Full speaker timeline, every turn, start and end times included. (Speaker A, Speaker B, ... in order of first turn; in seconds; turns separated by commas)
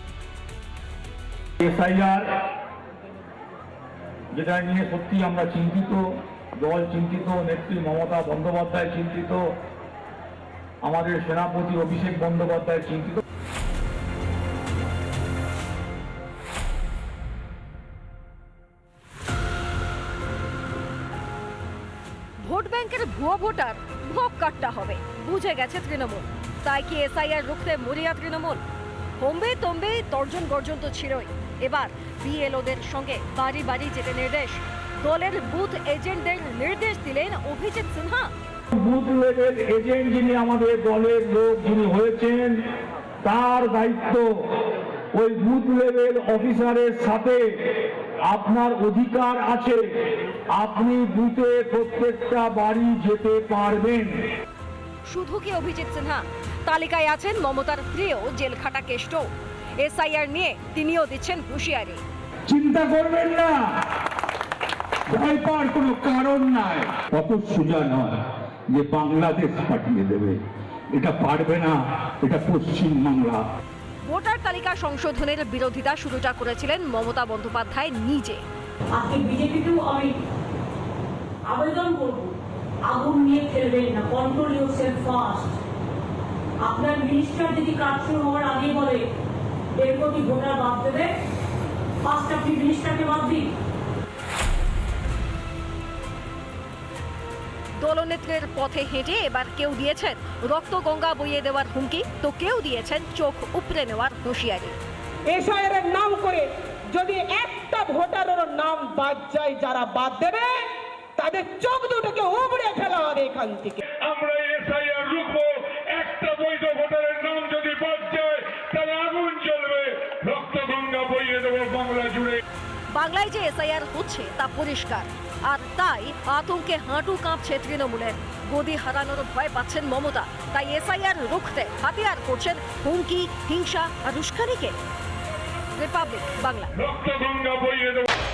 Speaker A: 1.6-2.3, Speaker A: 4.3-6.0, Speaker A: 6.6-9.4, Speaker A: 10.8-13.2, Speaker B: 22.4-28.6, Speaker B: 29.2-38.3, Speaker A: 38.7-42.6, Speaker A: 43.2-44.2, Speaker A: 45.1-47.4, Speaker A: 48.3-49.8, Speaker A: 50.5-54.2, Speaker B: 55.1-59.3, Speaker B: 59.8-62.0, Speaker A: 62.5-63.6, Speaker A: 65.1-68.1, Speaker A: 68.7-70.4, Speaker A: 70.9-73.4, Speaker B: 74.1-78.4, Speaker C: 79.0-80.1, Speaker C: 81.5-82.3, Speaker C: 82.9-85.5, Speaker C: 86.7-89.0, Speaker C: 89.8-91.1, Speaker C: 92.1-93.4, Speaker B: 97.8-104.8, Speaker D: 105.3-113.8, Speaker E: 114.0-122.4, Speaker B: 122.9-134.8, Speaker B: 135.8-136.7, Speaker E: 136.8-138.1